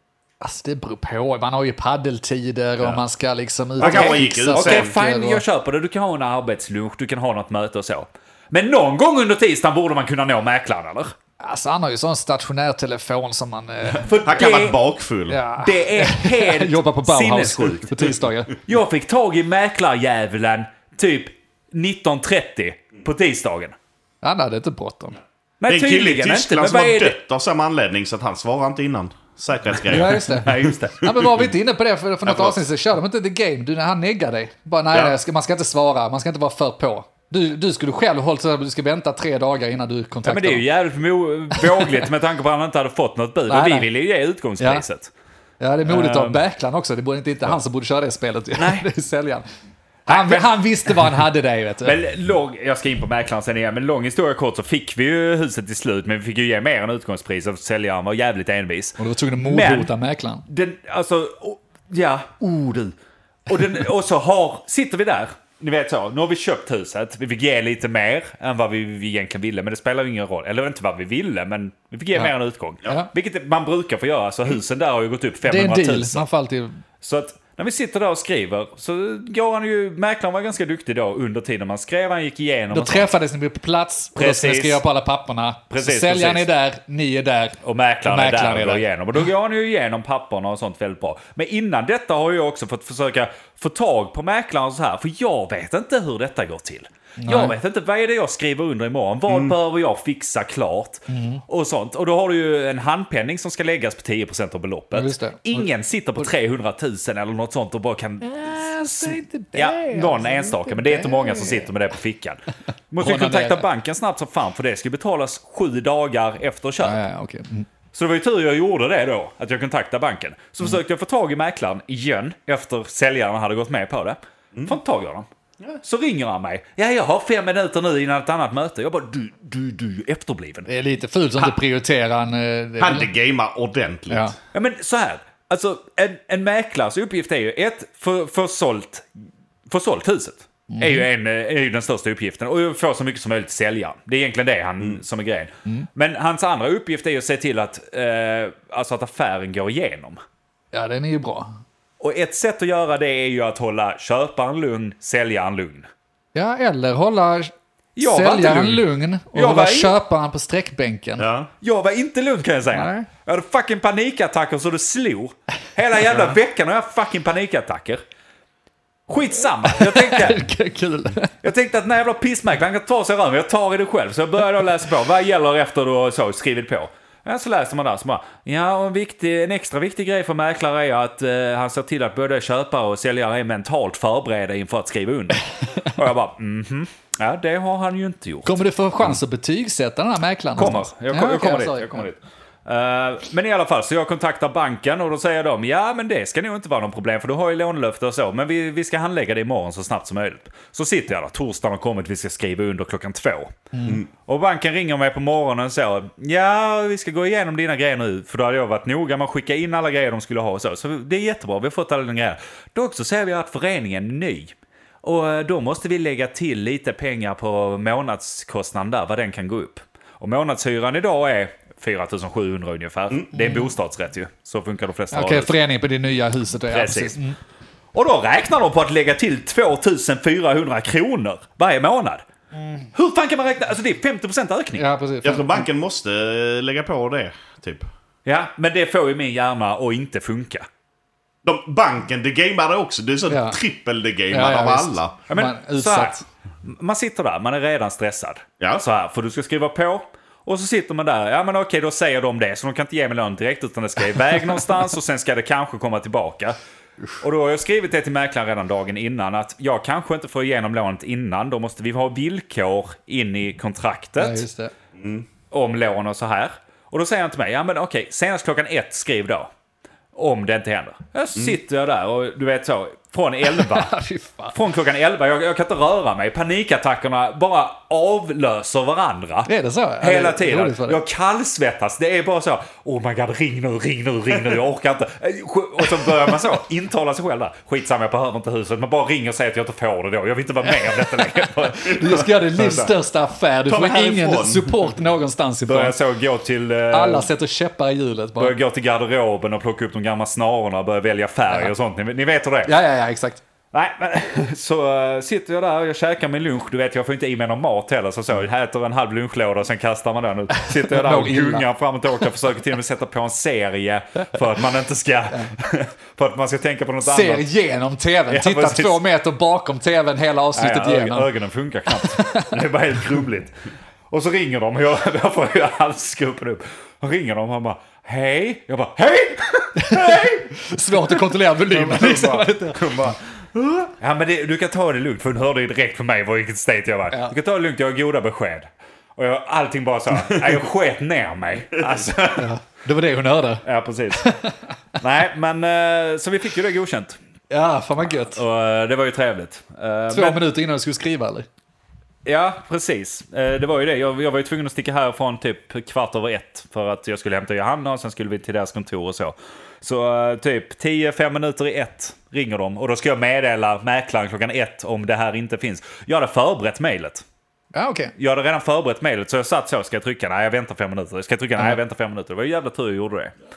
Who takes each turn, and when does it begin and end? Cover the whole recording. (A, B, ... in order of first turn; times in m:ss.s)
0:00.4-0:05.4 A
0:03.8-0:04.9 B
0:03.8-0:11.1 C
0:11.4-0:14.2 A
0:14.0-0:14.8 C
0:14.2-0:15.4 B
0:15.3-0:18.6 A
0:15.6-0:23.8 C
0:24.2-0:25.2 A
0:25.6-0:27.2 C
0:25.7-0:30.7 B
0:29.9-0:30.5 A
0:30.0-0:31.2 C
0:31.0-0:40.6 A
0:32.3-0:32.6 B
0:40.2-0:45.1 C
0:41.5-0:42.1 A
0:43.5-0:43.9 A
0:44.6-0:44.8 A
0:45.6-0:49.5 A
0:45.8-0:46.4 C
0:48.6-0:48.9 C
0:50.1-0:50.9 C
0:50.1-0:52.0 A
0:51.8-0:59.9 C
0:59.0-1:00.4 A
1:00.5-1:03.0 C
1:03.5-1:16.2 C
1:15.4-1:16.8 A
1:17.0-1:23.1 C
1:22.7-1:28.8 A
1:24.2-1:24.8 C
1:25.7-1:26.5 C
1:27.6-1:57.0 C
1:37.2-1:37.5 A
1:39.3-1:39.6 B
1:41.1-1:41.4 A
1:44.9-1:45.7 A
1:48.3-1:51.7 A
1:53.0-1:53.7 A
1:56.8-1:57.7 A
1:57.9-2:05.3 C
2:05.8-2:10.7 C
2:10.7-2:13.1 A
2:12.8-2:14.4 B
2:14.5-2:19.1 C
2:19.7-2:30.2 C
2:20.7-2:21.1 A
2:30.7-2:31.5 A
2:32.0-2:35.9 C
2:36.4-2:41.3 A
2:38.0-2:40.0 C
2:41.2-2:41.5 B
2:41.6-2:48.0 C
2:42.7-2:43.1 A
2:49.1-2:50.4 C
2:49.7-2:51.3 A
2:51.4-3:08.6 C
3:08.4-3:12.1 A
3:10.6-3:45.5 C
3:23.7-3:24.0 A
3:45.1-3:47.4 A
3:46.7-3:47.2 C
3:47.9-3:52.2 C
3:52.6-3:52.9 A
3:52.9-3:54.9 C
3:54.8-3:55.6 A
3:55.2-3:57.9 B
3:58.3-4:00.7 C
4:01.4-4:05.2 B
4:03.3-4:03.6 A
4:04.3-4:06.2 A
4:05.3-4:16.6 C
4:17.2-4:24.4 C
4:24.2-4:24.7 A
4:25.0-4:25.3 B
4:25.5-4:29.5 C
4:30.2-4:34.0 C
4:33.5-4:34.6 A
4:34.5-4:52.9 C
4:39.5-4:41.0 A
4:50.7-4:56.0 A
4:53.7-4:54.8 B
4:55.7-4:57.3 C
4:56.9-4:58.6 A
4:58.4-5:02.8 C
5:02.7-5:03.4 A
5:03.7-5:17.5 C
5:10.6-5:11.7 A
5:17.0-5:21.3 A
5:18.3-5:19.0 C
5:20.6-5:23.5 C
5:21.9-5:22.5 A
5:24.1-5:33.2 C
5:29.8-5:33.0 A
5:33.9-5:42.5 C
5:42.4-5:43.6 A
5:43.6-5:44.3 C
5:44.2-5:44.6 A
5:45.0-5:47.2 C
5:47.5-5:48.4 A
5:48.3-5:50.4 C
5:50.1-5:51.5 A
5:52.2-6:07.2 C
6:07.7-6:08.1 A
6:08.2-6:13.3 C